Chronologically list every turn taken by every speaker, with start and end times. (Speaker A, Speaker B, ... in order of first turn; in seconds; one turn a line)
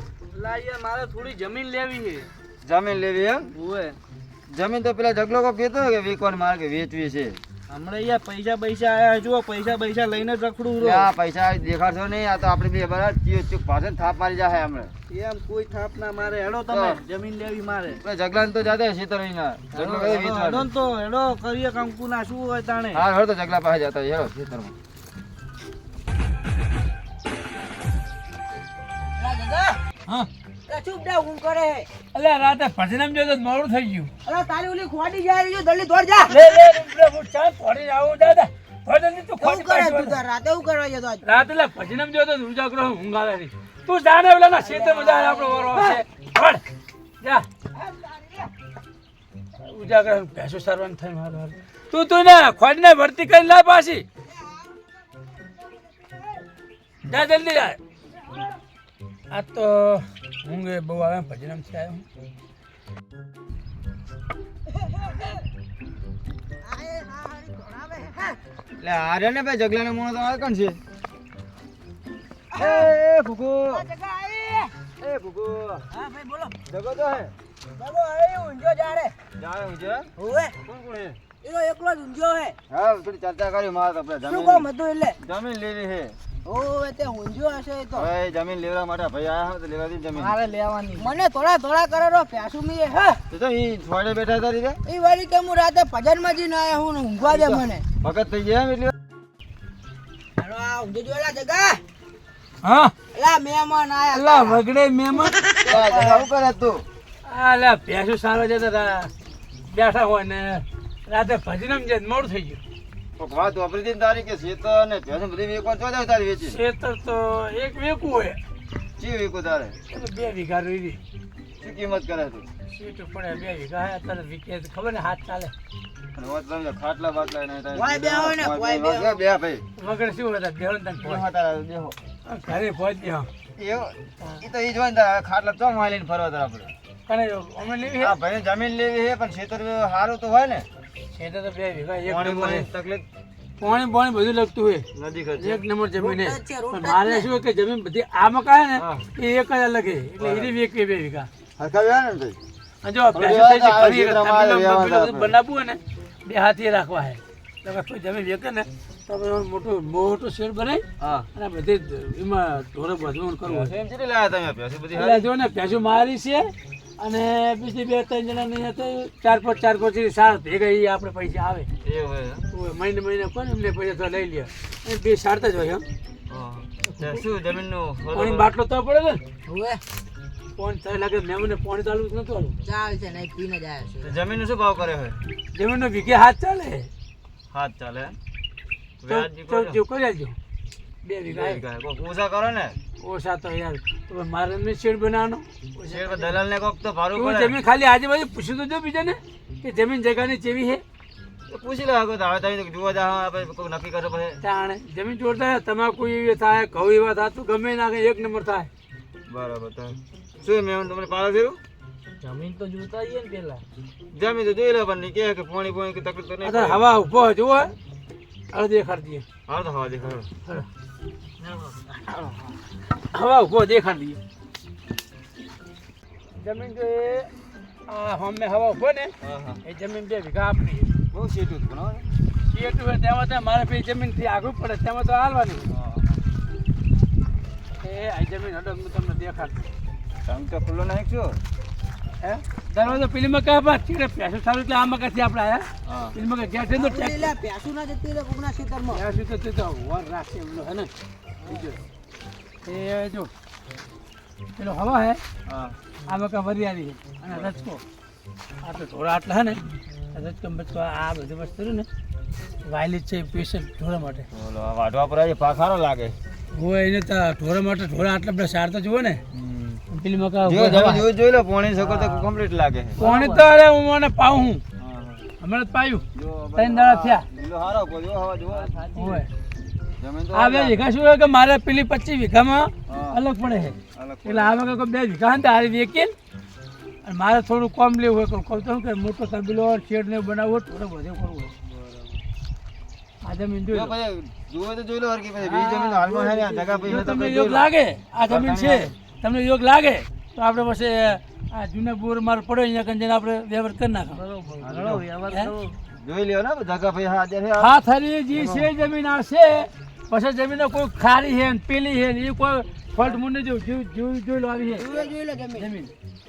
Speaker A: 0.3-2.3
Speaker B: 2.6-3.5
Speaker A: 3.5-4.0
Speaker B: 4.5-7.4
Speaker A: 7.7-11.1
Speaker B: 10.8-14.9
Speaker A: 15.1-18.0
Speaker B: 16.7-17.0
Speaker B: 18.0-20.7
Speaker A: 19.7-23.0
Speaker B: 22.9-24.7
Speaker C: 29.2-29.8
Speaker C: 30.7-31.9
Speaker D: 32.1-34.1
Speaker C: 34.2-36.3
Speaker D: 36.2-40.2
Speaker C: 39.4-41.2
Speaker D: 41.2-46.6
Speaker C: 44.6-46.0
Speaker C: 47.7-48.5
Speaker D: 49.6-54.0
Speaker C: 54.3-56.4
Speaker D: 57.0-57.8
Speaker D: 59.3-62.0
Speaker C: 66.6-68.4
Speaker B: 68.8-70.8
Speaker C: 72.5-72.9
Speaker B: 72.6-73.8
Speaker C: 73.7-74.9
Speaker B: 74.9-75.8
Speaker C: 75.9-76.6
Speaker B: 76.7-77.3
Speaker C: 77.8-79.1
Speaker B: 79.4-80.1
Speaker C: 80.2-80.5
Speaker B: 80.7-81.2
Speaker C: 81.3-82.6
Speaker B: 82.7-84.7
Speaker C: 84.2-85.2
Speaker B: 85.2-86.2
Speaker C: 86.4-88.1
Speaker B: 87.9-90.3
Speaker A: 90.1-91.1
Speaker C: 91.0-93.2
Speaker B: 93.3-94.8
Speaker C: 94.8-97.8
Speaker B: 97.2-98.9
Speaker C: 100.4-101.8
Speaker D: 102.6-102.9
Speaker C: 103.1-104.6
Speaker D: 104.1-105.4
Speaker C: 105.6-106.3
Speaker B: 105.7-106.8
Speaker D: 107.2-109.1
Speaker D: 109.7-112.6
Speaker B: 113.2-116.6
Speaker D: 116.4-118.4
Speaker B: 119.0-119.8
Speaker D: 119.9-121.0
Speaker B: 121.6-122.5
Speaker D: 122.7-125.5
Speaker B: 126.1-129.6
Speaker C: 127.7-129.2
Speaker D: 129.8-131.2
Speaker B: 131.0-131.9
Speaker D: 132.2-133.3
Speaker B: 133.6-136.7
Speaker D: 137.1-138.2
Speaker B: 138.0-140.7
Speaker D: 141.1-142.7
Speaker B: 142.1-143.1
Speaker D: 143.6-144.8
Speaker B: 144.9-145.6
Speaker D: 145.4-151.3
Speaker C: 146.0-147.3
Speaker B: 148.8-149.0
Speaker B: 150.2-150.5
Speaker B: 151.6-152.4
Speaker D: 152.8-160.8
Speaker B: 153.2-155.3
Speaker B: 161.0-161.3
Speaker D: 161.3-163.7
Speaker B: 163.4-165.2
Speaker D: 164.9-171.7
Speaker B: 171.8-172.4
Speaker D: 172.5-175.8
Speaker B: 176.3-178.4
Speaker D: 176.8-177.2
Speaker D: 178.1-179.2
Speaker C: 179.4-179.8
Speaker D: 180.6-182.6
Speaker C: 182.6-184.2
Speaker B: 184.0-185.2
Speaker D: 185.5-186.9
Speaker B: 187.5-188.2
Speaker B: 189.0-189.8
Speaker D: 189.1-190.4
Speaker D: 191.0-191.6
Speaker B: 191.3-192.8
Speaker D: 193.0-196.4
Speaker B: 195.9-197.5
Speaker D: 197.1-200.8
Speaker B: 201.5-204.4
Speaker D: 204.4-208.7
Speaker B: 209.3-211.6
Speaker A: 212.2-213.6
Speaker B: 214.1-216.8
Speaker D: 216.4-217.7
Speaker D: 218.5-219.2
Speaker B: 219.5-220.3
Speaker B: 222.1-222.5
Speaker D: 223.1-224.2
Speaker D: 226.4-227.3
Speaker D: 227.9-229.1
Speaker B: 229.2-229.6
Speaker D: 229.6-230.9
Speaker B: 231.1-232.1
Speaker D: 232.5-235.7
Speaker B: 235.7-236.2
Speaker D: 237.8-239.7
Speaker B: 240.2-241.4
Speaker D: 242.2-247.3
Speaker B: 245.8-246.2
Speaker C: 246.8-249.0
Speaker D: 248.9-250.9
Speaker D: 251.4-251.8
Speaker D: 252.6-253.3
Speaker D: 254.6-255.2
Speaker B: 255.5-255.8
Speaker D: 256.0-257.8
Speaker D: 258.6-261.9
Speaker D: 262.6-264.3
Speaker B: 264.3-266.2
Speaker D: 266.5-269.2
Speaker B: 269.3-269.8
Speaker D: 269.9-271.1
Speaker B: 270.4-273.0
Speaker A: 271.8-272.3
Speaker A: 273.0-273.5
Speaker D: 273.0-274.6
Speaker B: 274.8-275.2
Speaker D: 275.4-276.0
Speaker B: 276.1-278.7
Speaker D: 276.6-277.2
Speaker A: 278.5-279.2
Speaker D: 278.9-279.3
Speaker B: 280.0-280.8
Speaker D: 280.3-286.1
Speaker B: 282.9-283.2
Speaker B: 283.9-284.5
Speaker D: 287.0-291.5
Speaker B: 291.7-292.1
Speaker D: 293.2-293.9
Speaker B: 293.7-297.6
Speaker A: 295.4-297.0
Speaker D: 296.8-304.2
Speaker B: 298.3-298.9
Speaker A: 304.1-305.7
Speaker B: 304.6-305.0
Speaker B: 306.0-307.7
Speaker D: 307.6-314.9
Speaker A: 308.4-308.7
Speaker C: 314.8-315.7
Speaker D: 315.6-315.9